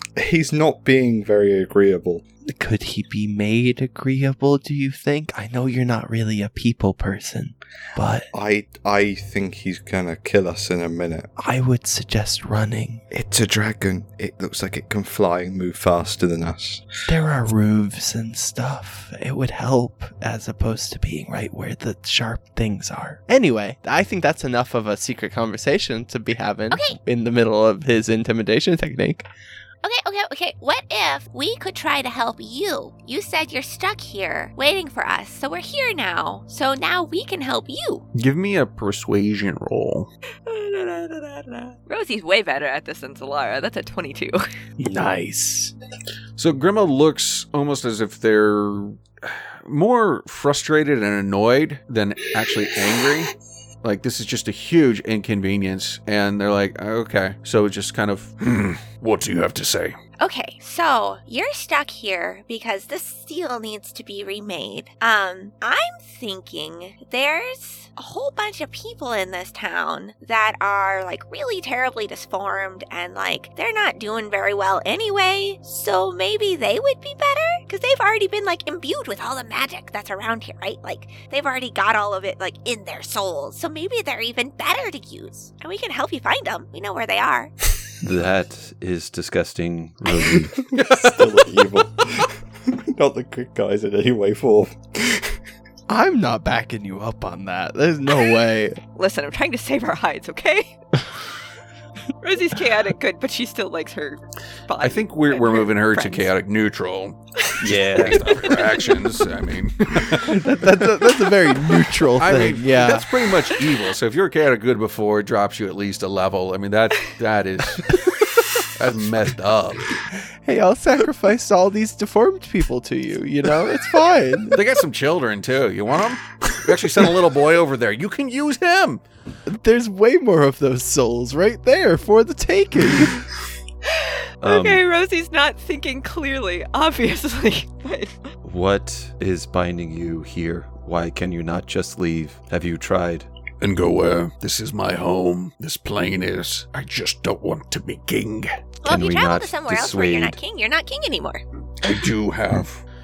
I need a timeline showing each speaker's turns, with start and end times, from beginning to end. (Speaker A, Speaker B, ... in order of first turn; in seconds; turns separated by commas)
Speaker A: 0.2-2.2, Speaker B: 2.5-8.3, Speaker A: 8.3-11.3, Speaker B: 11.4-13.1, Speaker A: 13.1-16.9, Speaker B: 17.1-29.2, Speaker C: 26.7-27.0, Speaker C: 29.8-38.1, Speaker D: 38.1-40.1, Speaker E: 40.5-44.5, Speaker B: 44.8-45.7, Speaker D: 46.4-60.0, Speaker C: 60.2-87.5, Speaker F: 88.0-90.6, Speaker D: 90.7-91.8, Speaker A: 90.8-95.4, Speaker B: 95.9-98.8, Speaker E: 99.0-100.8, Speaker E: 102.2-106.3, Speaker D: 104.8-111.2, Speaker E: 107.5-109.0, Speaker F: 107.6-108.7, Speaker B: 110.2-113.1, Speaker D: 112.2-118.1, Speaker D: 118.6-119.9, Speaker B: 120.4-124.6, Speaker D: 124.5-129.0, Speaker B: 129.5-133.2, Speaker E: 134.0-138.3, Speaker F: 134.4-134.8, Speaker F: 138.4-143.3, Speaker D: 143.6-148.6, Speaker C: 148.8-151.4, Speaker F: 148.9-150.4, Speaker D: 151.8-152.8